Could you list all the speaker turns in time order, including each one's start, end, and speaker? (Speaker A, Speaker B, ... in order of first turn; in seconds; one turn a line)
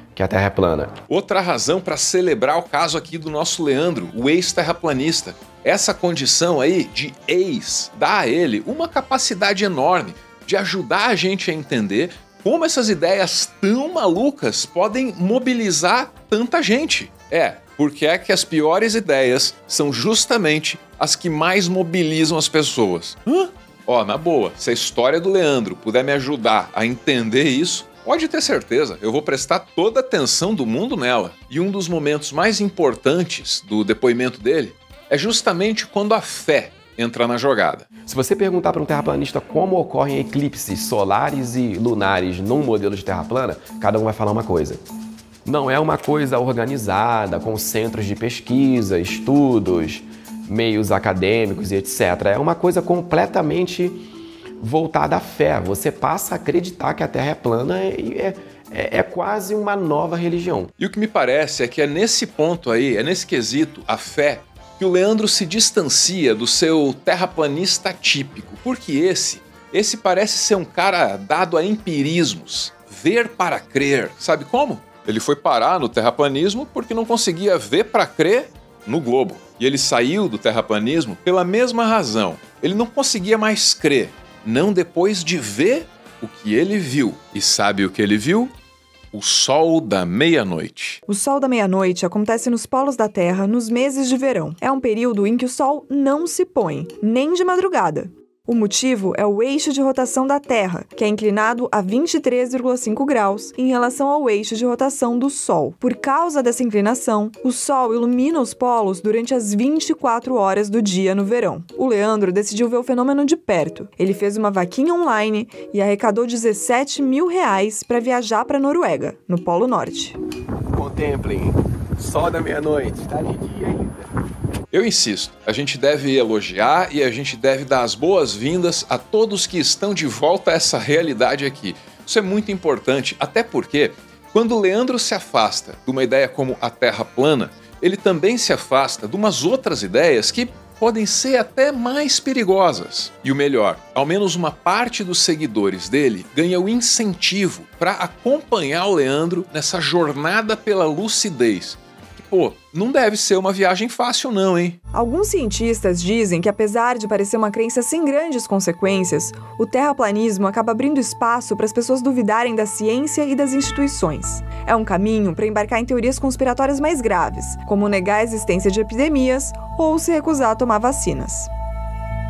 Speaker A: 0.1-0.9
Speaker B: 1.1-37.9
Speaker A: 38.1-44.8
Speaker A: 45.5-54.0
Speaker A: 54.6-60.7
Speaker B: 60.8-88.5
Speaker B: 89.1-91.0
Speaker C: 91.1-120.2
Speaker A: 120.7-124.0
Speaker B: 124.7-154.8
Speaker C: 154.9-171.5